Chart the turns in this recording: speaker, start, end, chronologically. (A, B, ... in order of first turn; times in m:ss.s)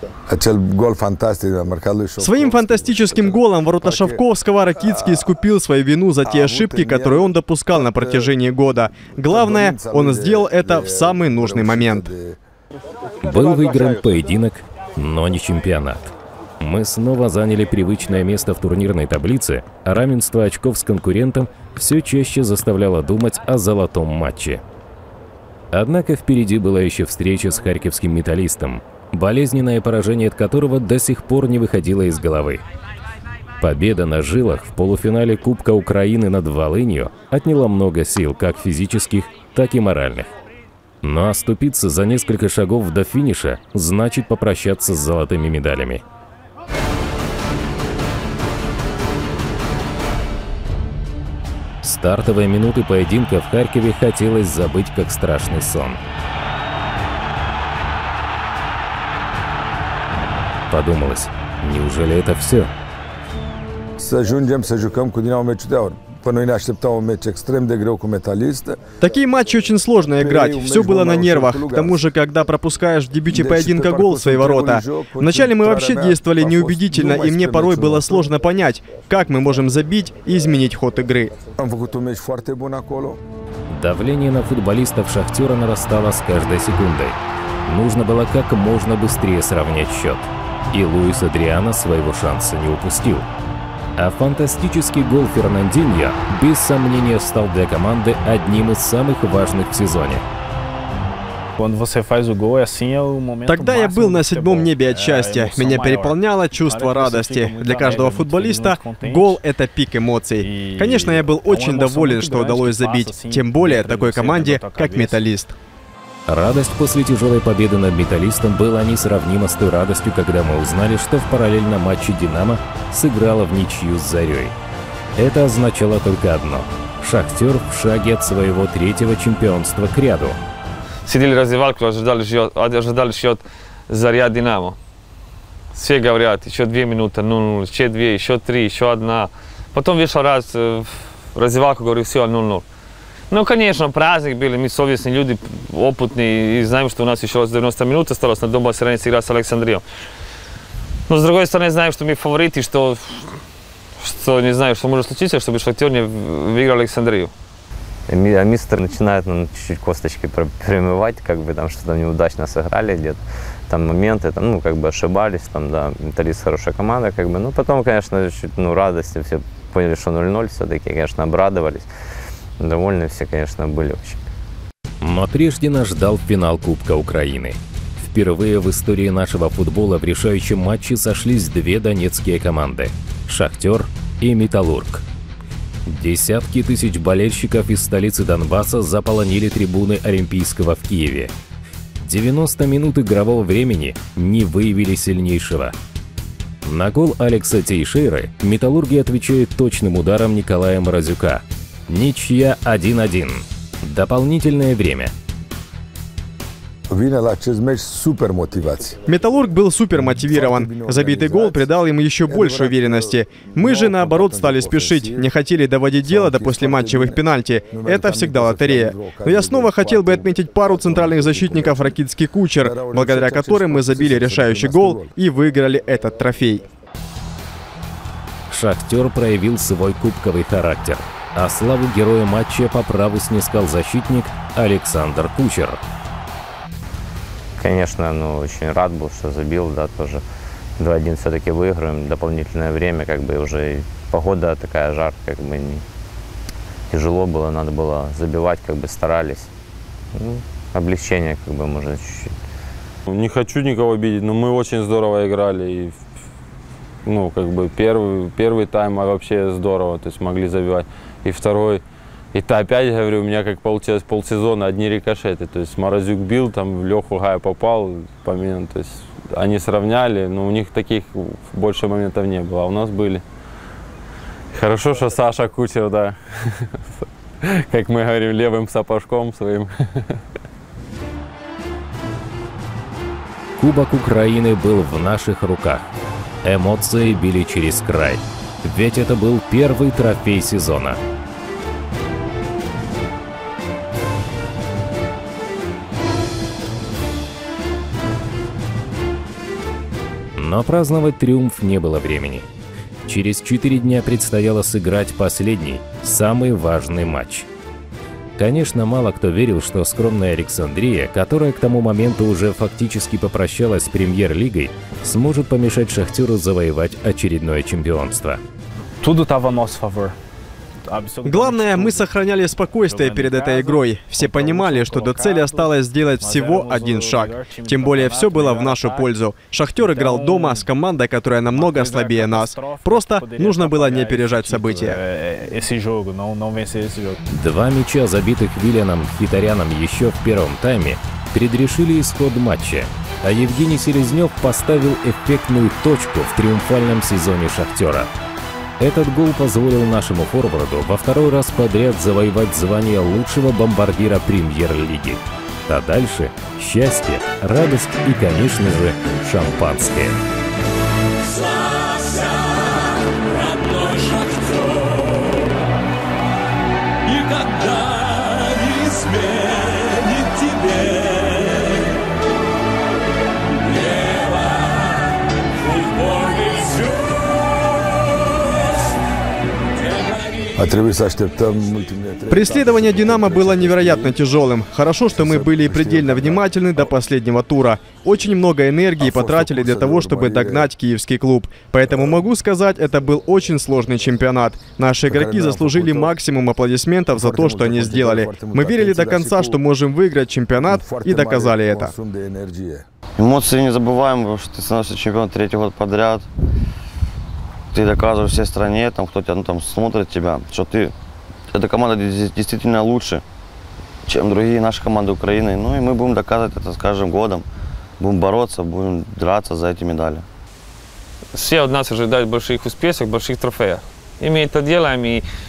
0:00.3-0:04.2 A
0:02.2-0:12.1 B
0:04.8-0:05.3 A
0:06.2-0:08.3 A
0:09.2-0:12.4 A
0:13.2-0:24.6 C
0:25.7-0:32.6 C
0:33.6-0:40.3 C
0:41.0-0:46.0 C
0:51.8-0:56.0 C
1:00.7-1:02.7 C
1:04.0-1:09.0 A
1:09.0-1:21.3 B
1:10.1-1:12.0 A
1:13.3-1:18.3 A
1:21.6-1:23.2 A
1:23.7-1:33.3 C
1:34.0-1:40.2 C
1:41.6-1:49.4 D
1:43.5-1:55.5 B
1:50.4-1:55.2 D
1:56.3-2:04.5 C
2:05.2-2:10.4 C
2:11.0-2:14.8 E
2:15.7-2:22.6 E
2:23.3-2:29.8 E
2:31.1-2:33.3 E
2:34.0-2:37.3 E
2:38.1-2:51.9 F
2:52.6-2:54.2 F
2:55.0-3:05.0 C
3:05.8-3:11.3 C
3:12.0-3:15.8 C
3:16.6-3:25.1 C
3:26.9-3:29.1 A
3:29.0-3:46.6 B
3:29.9-3:31.7 A
3:32.3-3:35.3 A
3:36.0-3:42.0 A
3:42.6-3:45.1 A
3:48.5-3:55.8 C
3:57.6-4:00.2 F
4:00.8-4:05.8 F
4:06.9-4:09.5 F
4:10.1-4:12.3 F
4:13.1-4:16.0 G
4:17.0-4:21.8 G
4:22.3-4:33.2 G
4:34.5-4:40.2 G
4:43.6-4:45.9 C
4:46.4-4:51.0 C
5:00.4-5:02.4 C
5:03.0-5:07.5 C
5:08.4-5:18.4 C
5:19.0-5:20.2 D
5:20.9-5:22.2 D
5:21.2-5:35.0 B
5:22.8-5:29.1 D
5:29.8-5:30.7 D
5:31.5-5:37.2 D
5:37.3-5:48.1 C
5:48.8-6:00.2 C
6:20.5-6:24.2 A
6:22.3-6:41.9 B
6:25.1-6:26.9 A
6:29.0-6:30.7 A
6:31.9-6:32.2 A
6:35.0-6:36.2 A
6:37.1-6:39.6 A
6:40.6-6:42.8 A
6:43.2-6:46.3 H
6:47.7-6:50.9 H
6:51.5-6:53.2 H
6:54.0-6:57.4 H
6:58.0-7:00.2 H
7:01.3-7:05.2 E